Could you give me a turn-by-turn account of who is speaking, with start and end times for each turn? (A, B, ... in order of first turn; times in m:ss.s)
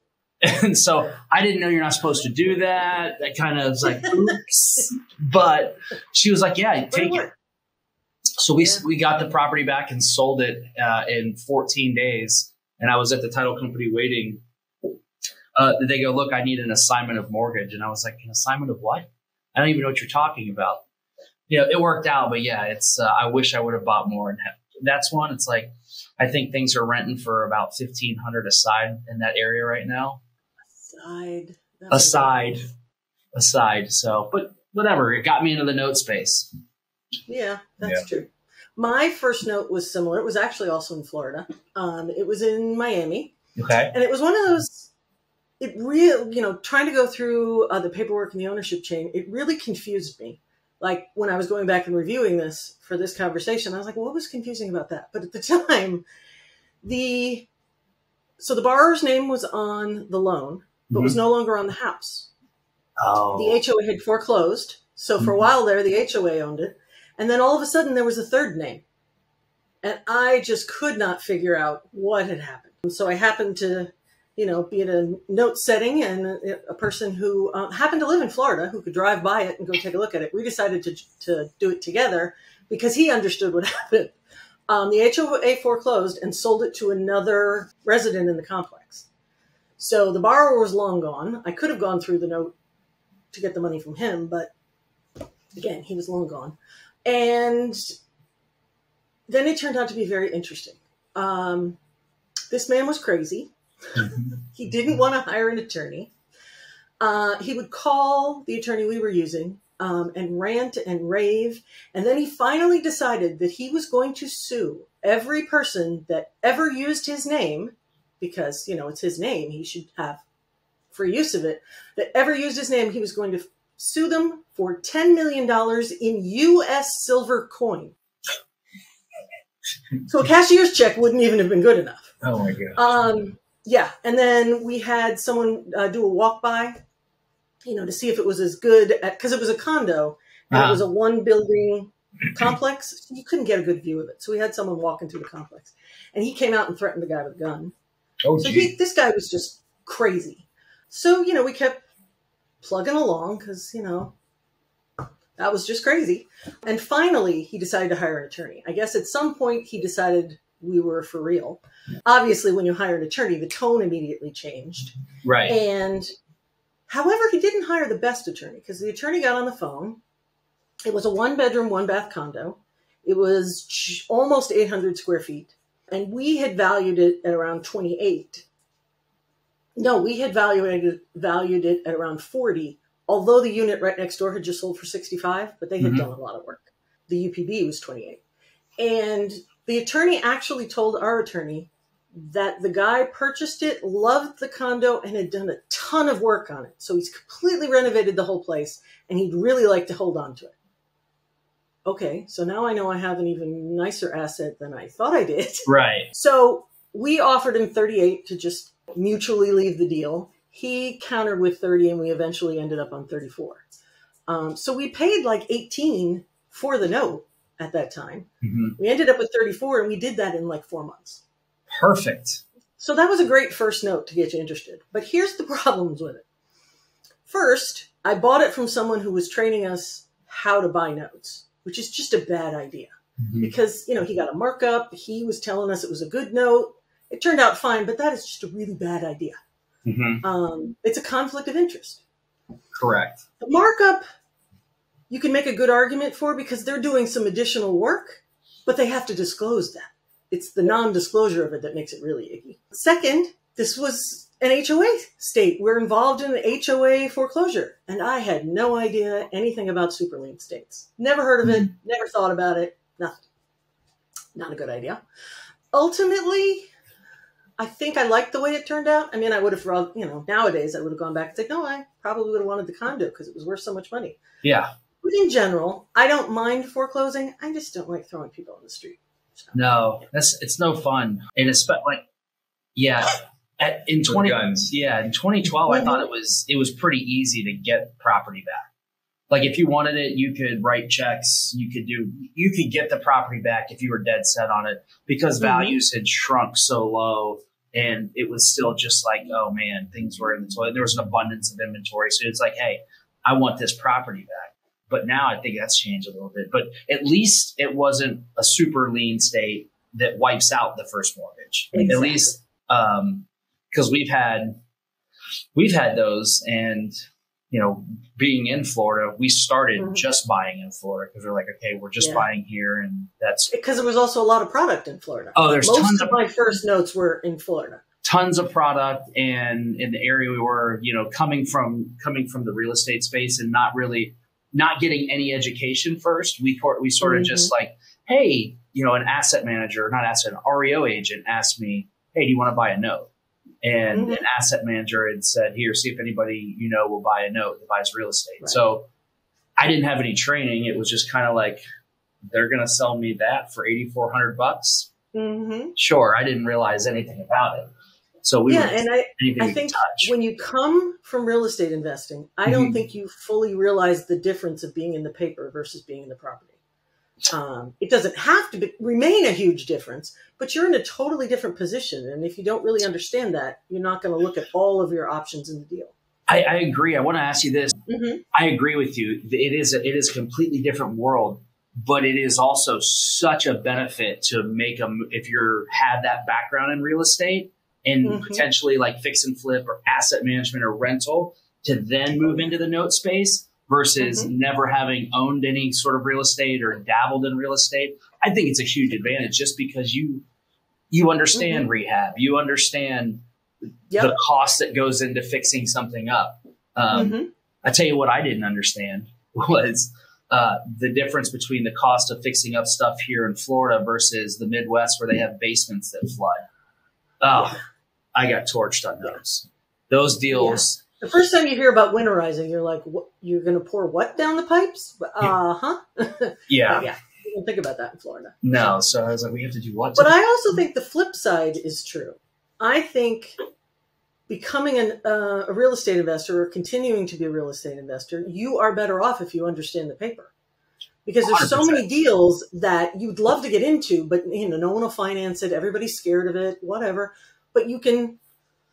0:00.4-0:07.2 A
0:06.9-0:07.3 B
0:08.4-0:14.4 A
0:08.6-0:08.8 B
0:15.6-0:20.8 A
0:21.5-0:30.2 A
0:30.7-0:32.6 B
0:31.9-0:32.6 A
0:33.3-0:36.5 A
0:37.3-0:43.3 B
0:43.6-0:43.9 A
0:43.9-0:44.9 B
0:45.6-0:56.0 B
0:56.8-0:57.5 B
0:58.4-1:02.3 B
1:00.9-1:01.2 A
1:03.0-1:03.6 A
1:03.3-1:08.8 B
1:09.8-1:24.2 B
1:24.7-1:29.0 B
1:29.8-1:32.5 B
1:33.3-1:34.5 B
1:35.5-1:37.9 B
1:39.3-1:41.8 B
1:42.5-1:46.1 B
1:47.0-2:00.2 B
2:00.9-2:07.9 B
2:10.1-2:12.1 B
2:12.2-2:13.0 C
2:12.7-2:16.8 B
2:17.6-2:27.7 B
2:20.5-2:20.8 A
2:28.2-2:28.7 C
2:28.4-2:31.8 B
2:32.6-2:34.1 B
2:35.4-2:44.9 B
2:45.2-2:45.6 A
2:45.5-2:46.1 B
2:46.9-2:50.0 B
2:50.8-2:58.4 B
2:59.8-3:08.2 B
3:05.8-3:06.1 A
3:08.8-3:20.5 B
3:21.8-3:33.6 B
3:25.7-3:26.1 A
3:34.3-3:41.2 B
3:38.4-3:38.8 A
3:41.7-3:42.4 A
3:42.8-3:46.2 B
3:47.3-3:59.4 B
3:53.2-3:53.5 A
3:59.8-4:00.2 A
4:00.2-4:02.0 B
4:02.8-4:03.2 A
4:03.4-4:04.0 B
4:05.1-4:23.2 B
4:24.3-4:25.0 B
4:25.7-4:26.7 B
4:27.6-4:34.2 B
4:34.4-4:34.7 A
4:35.0-4:39.7 B
4:39.5-4:42.0 A
4:42.8-4:48.6 A
4:44.1-4:44.7 C
4:45.7-4:46.0 B
4:49.3-5:14.6 A
4:55.4-4:55.8 B
5:11.7-5:12.4 B
5:15.5-5:17.0 A
5:17.5-5:23.5 A
5:19.8-5:20.0 B
5:22.0-5:22.2 B
5:23.5-5:27.8 B
5:25.4-5:26.2 A
5:28.0-5:43.1 A
5:37.0-5:37.5 B
5:43.6-5:48.9 A
5:43.9-5:44.2 B
5:49.6-5:51.6 A
5:52.3-5:54.9 A
5:55.1-5:55.7 B
5:55.8-5:57.7 A
5:58.2-6:00.1 A
5:58.5-6:06.6 B
6:02.4-6:02.8 A
6:07.3-6:15.9 B
6:16.3-6:17.8 A
6:17.9-6:18.2 B
6:18.3-6:40.2 A
6:28.0-6:28.4 B
6:34.0-6:34.3 B
6:40.9-6:43.2 A
6:41.3-6:41.6 B
6:44.0-6:56.4 A
6:46.9-6:47.3 B
6:57.2-6:57.6 A
6:58.1-7:00.8 A
7:00.3-7:08.7 B
7:06.5-7:06.9 A
7:08.4-7:10.2 A
7:10.0-7:13.4 B
7:14.3-7:20.3 B
7:21.0-7:28.2 B
7:21.2-7:21.8 A